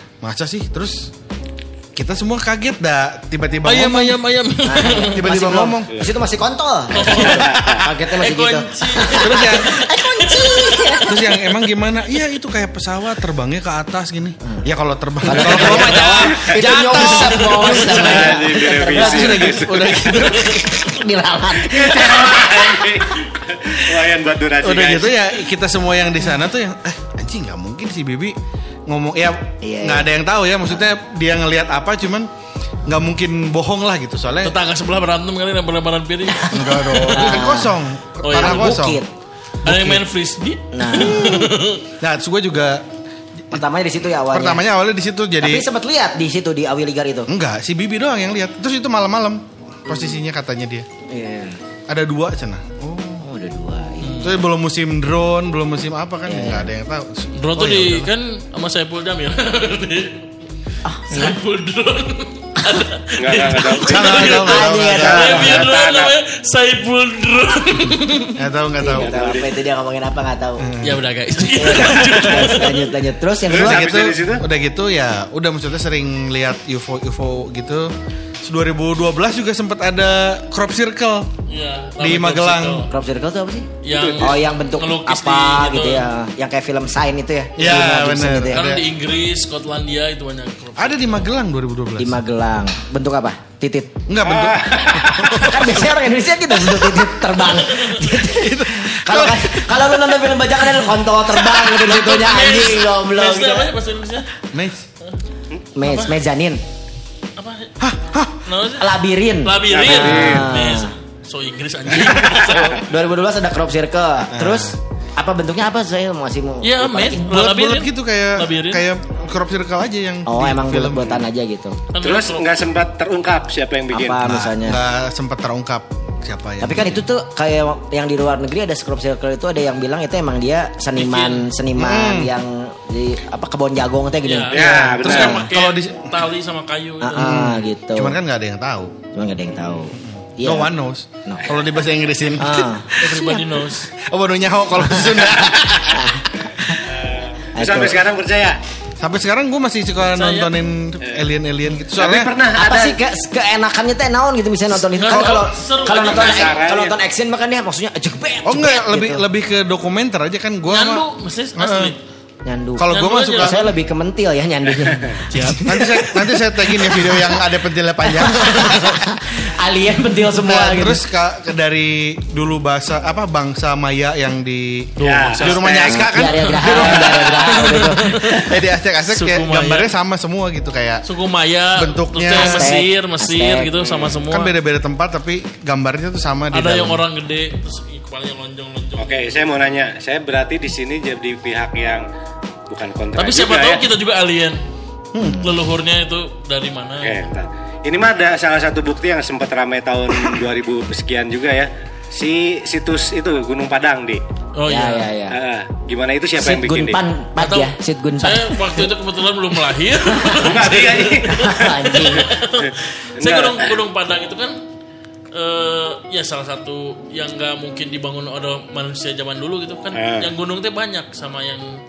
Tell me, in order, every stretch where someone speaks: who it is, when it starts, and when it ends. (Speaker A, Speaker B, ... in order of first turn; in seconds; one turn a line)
Speaker A: 0.2-1.1
Speaker A: 1.9-4.2
Speaker B: 3.6-5.3
Speaker C: 4.6-11.5
Speaker A: 5.1-5.9
Speaker B: 6.9-7.5
Speaker D: 7.1-7.8
Speaker B: 8.2-11.0
Speaker A: 9.2-9.8
Speaker A: 11.1-18.3
Speaker C: 15.2-23.1
Speaker B: 15.3-16.2
Speaker D: 16.0-16.6
Speaker B: 16.9-18.3
Speaker D: 17.7-20.1
Speaker A: 18.9-20.6
Speaker D: 21.7-25.3
Speaker A: 24.6-28.3
Speaker A: 28.9-32.3
Speaker C: 29.6-30.1
Speaker A: 32.9-34.5
Speaker B: 34.4-37.4
Speaker C: 36.3-37.8
Speaker A: 36.5-39.0
Speaker B: 38.2-38.8
Speaker C: 38.4-39.1
Speaker A: 39.6-40.0
Speaker B: 39.6-41.8
Speaker C: 40.7-41.2
Speaker A: 40.9-42.8
Speaker C: 43.5-44.6
Speaker A: 44.3-45.6
Speaker C: 45.4-47.3
Speaker A: 47.3-50.9
Speaker C: 49.9-50.2
Speaker C: 51.1-51.6
Speaker A: 51.9-53.2
Speaker C: 53.1-54.2
Speaker B: 54.0-54.4
Speaker A: 54.2-58.1
Speaker C: 56.2-56.7
Speaker B: 57.3-60.2
Speaker C: 60.9-61.4
Speaker B: 61.1-68.3
Speaker D: 63.2-64.2
Speaker A: 63.9-65.6
Speaker C: 64.2-65.6
Speaker D: 64.9-66.1
Speaker A: 68.4-69.1
Speaker C: 68.8-70.7
Speaker D: 69.0-69.5
Speaker A: 70.6-71.0
Speaker B: 70.8-72.8
Speaker C: 71.5-73.8
Speaker D: 73.5-74.4
Speaker A: 73.5-77.9
Speaker A: 78.4-81.3
Speaker B: 81.5-82.9
Speaker A: 82.0-82.8
Speaker C: 82.8-83.7
Speaker B: 83.8-86.1
Speaker D: 83.9-84.5
Speaker C: 84.2-88.6
Speaker A: 87.6-88.8
Speaker B: 88.5-91.2
Speaker A: 90.8-92.2
Speaker C: 92.0-94.0
Speaker A: 94.1-95.8
Speaker D: 94.2-95.5
Speaker C: 95.2-103.7
Speaker B: 97.4-98.1
Speaker A: 98.3-99.7
Speaker B: 101.7-104.3
Speaker A: 104.5-104.8
Speaker C: 105.7-106.6
Speaker B: 105.8-106.2
Speaker B: 107.4-107.7
Speaker A: 107.8-108.4
Speaker B: 108.4-108.9
Speaker C: 108.8-110.9
Speaker B: 109.4-112.8
Speaker D: 109.7-110.5
Speaker D: 112.1-112.5
Speaker C: 112.3-117.3
Speaker A: 114.3-114.7
Speaker B: 116.6-118.8
Speaker A: 117.2-121.2
Speaker C: 120.2-121.8
Speaker B: 121.9-122.4
Speaker D: 122.0-124.2
Speaker C: 123.9-124.8
Speaker A: 124.2-127.0
Speaker C: 126.6-135.5
Speaker B: 131.0-131.4
Speaker A: 131.8-132.3
Speaker B: 134.2-137.4
Speaker D: 134.5-135.4
Speaker A: 134.5-136.1
Speaker C: 137.0-138.2
Speaker A: 137.2-138.9
Speaker C: 139.1-140.7
Speaker A: 139.9-143.3
Speaker C: 141.2-141.5
Speaker C: 142.4-143.4
Speaker B: 143.0-143.9
Speaker A: 144.0-146.1
Speaker C: 144.8-146.8
Speaker D: 146.8-148.6
Speaker C: 147.6-148.0
Speaker A: 149.0-152.3
Speaker B: 150.1-150.5
Speaker D: 151.0-151.3
Speaker D: 151.9-153.0
Speaker C: 152.5-159.2
Speaker B: 154.9-156.5
Speaker A: 155.1-155.4
Speaker D: 155.9-156.9
Speaker A: 158.4-161.9
Speaker B: 160.7-162.0
Speaker C: 162.4-167.4
Speaker A: 162.8-163.7
Speaker B: 162.9-163.7
Speaker B: 165.3-165.6
Speaker A: 165.6-168.9
Speaker C: 168.1-171.0
Speaker A: 170.4-177.3
Speaker B: 175.0-178.2
Speaker D: 175.0-176.1
Speaker C: 175.9-178.5
Speaker D: 176.7-177.7
Speaker A: 178.4-181.0
Speaker B: 179.1-179.9
Speaker B: 181.0-184.5
Speaker A: 181.7-182.7
Speaker C: 182.3-183.7
Speaker D: 183.8-184.2
Speaker A: 184.3-187.0
Speaker B: 186.5-189.4
Speaker D: 189.0-192.1
Speaker D: 192.7-193.8
Speaker B: 193.2-194.6
Speaker C: 195.2-195.5
Speaker B: 195.3-197.2
Speaker D: 197.0-204.2
Speaker B: 204.5-205.1
Speaker C: 204.7-205.4
Speaker D: 205.3-207.0
Speaker C: 206.4-208.9
Speaker B: 207.4-214.6
Speaker D: 210.4-213.7
Speaker C: 211.3-212.3
Speaker B: 215.3-221.7
Speaker D: 219.9-220.3